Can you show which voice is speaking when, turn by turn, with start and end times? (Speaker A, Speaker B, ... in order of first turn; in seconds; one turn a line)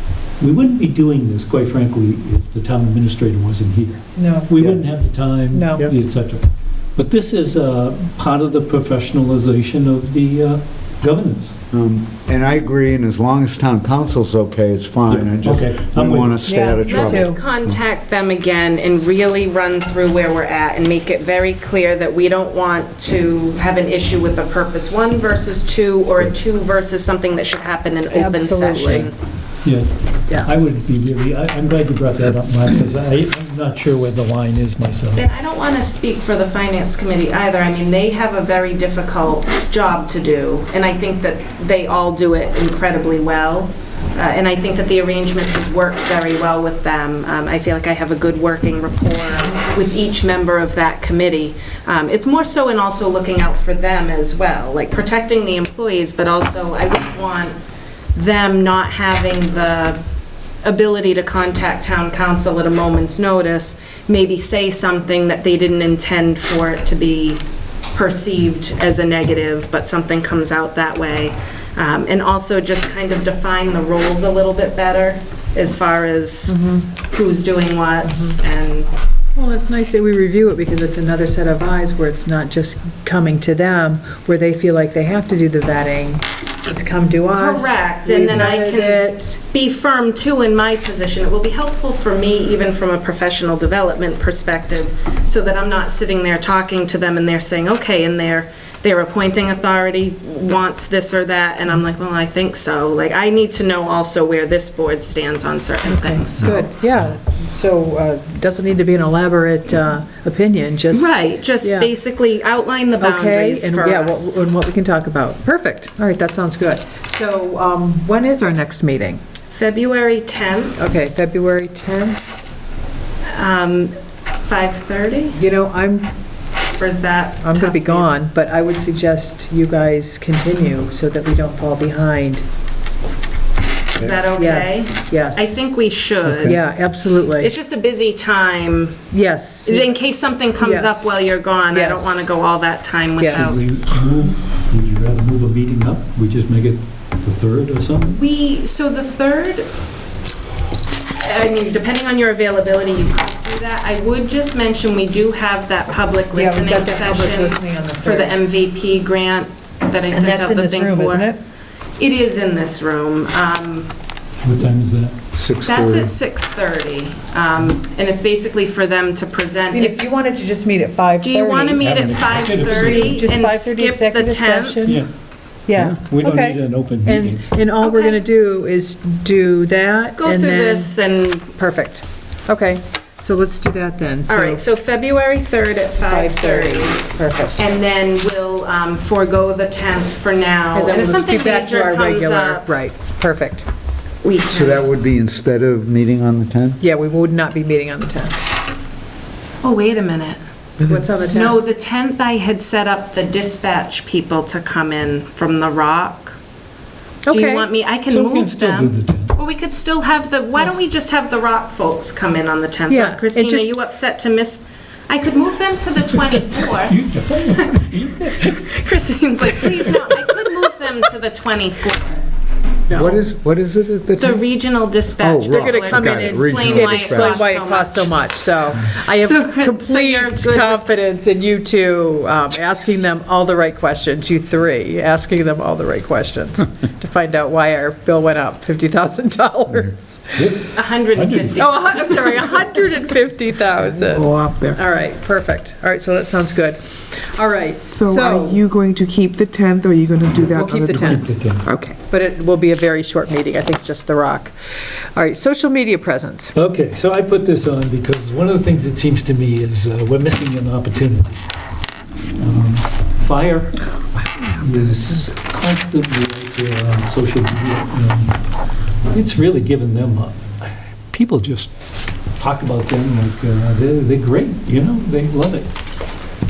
Speaker A: 0.4-11.6
Speaker B: 4.2-4.5
Speaker C: 4.6-4.8
Speaker B: 5.5-5.9
Speaker C: 11.7-17.8
Speaker A: 15.1-16.4
Speaker B: 16.5-17.4
Speaker D: 16.8-29.1
Speaker B: 28.1-29.1
Speaker A: 29.6-35.2
Speaker D: 35.2-57.6
Speaker D: 58.1-60.0
Speaker D: 60.6-67.4
Speaker D: 67.9-78.9
Speaker B: 76.5-76.9
Speaker B: 79.4-89.3
Speaker D: 87.3-106.7
Speaker B: 105.9-111.9
Speaker D: 110.9-114.4
Speaker B: 113.0-119.2
Speaker D: 119.5-120.8
Speaker B: 120.8-122.2
Speaker D: 123.3-123.9
Speaker D: 124.5-125.4
Speaker B: 125.3-126.1
Speaker D: 126.8-128.1
Speaker B: 127.4-132.4
Speaker D: 134.0-136.6
Speaker B: 134.3-135.6
Speaker B: 136.3-137.5
Speaker D: 137.3-139.1
Speaker B: 139.1-139.9
Speaker D: 139.7-143.6
Speaker B: 140.6-141.2
Speaker B: 141.7-142.3
Speaker B: 143.2-143.6
Speaker A: 143.3-148.2
Speaker D: 148.2-149.7
Speaker D: 151.2-161.3
Speaker B: 156.3-158.4
Speaker B: 160.1-161.4
Speaker D: 162.0-163.9
Speaker A: 164.4-165.2
Speaker C: 165.3-166.1
Speaker D: 165.6-170.0
Speaker B: 169.7-171.9
Speaker D: 171.2-175.0
Speaker A: 171.8-173.2
Speaker B: 172.7-175.0
Speaker B: 175.7-180.9
Speaker A: 175.9-177.6
Speaker D: 177.8-178.2
Speaker D: 180.2-181.6
Speaker B: 181.6-184.6
Speaker D: 184.3-192.7
Speaker B: 186.1-187.6
Speaker B: 190.7-193.7
Speaker D: 194.2-194.9
Speaker C: 194.5-196.8
Speaker B: 196.8-198.4
Speaker D: 199.6-200.4
Speaker B: 200.8-201.6
Speaker D: 201.2-206.4
Speaker B: 207.3-207.7
Speaker D: 207.3-222.2
Speaker A: 208.1-209.4
Speaker B: 212.9-213.7
Speaker A: 216.6-218.6
Speaker B: 222.9-223.2
Speaker C: 222.9-224.4
Speaker D: 224.2-228.2
Speaker C: 225.2-227.5
Speaker B: 225.5-240.5
Speaker D: 228.9-230.9
Speaker A: 240.4-241.6
Speaker D: 240.7-242.7
Speaker B: 241.6-248.6
Speaker E: 244.0-244.8
Speaker E: 247.4-252.0
Speaker A: 250.4-251.7
Speaker B: 250.5-251.3
Speaker B: 252.0-254.6
Speaker B: 255.2-256.5
Speaker A: 256.5-261.4
Speaker A: 262.4-268.4
Speaker A: 269.1-271.7
Speaker A: 272.4-275.7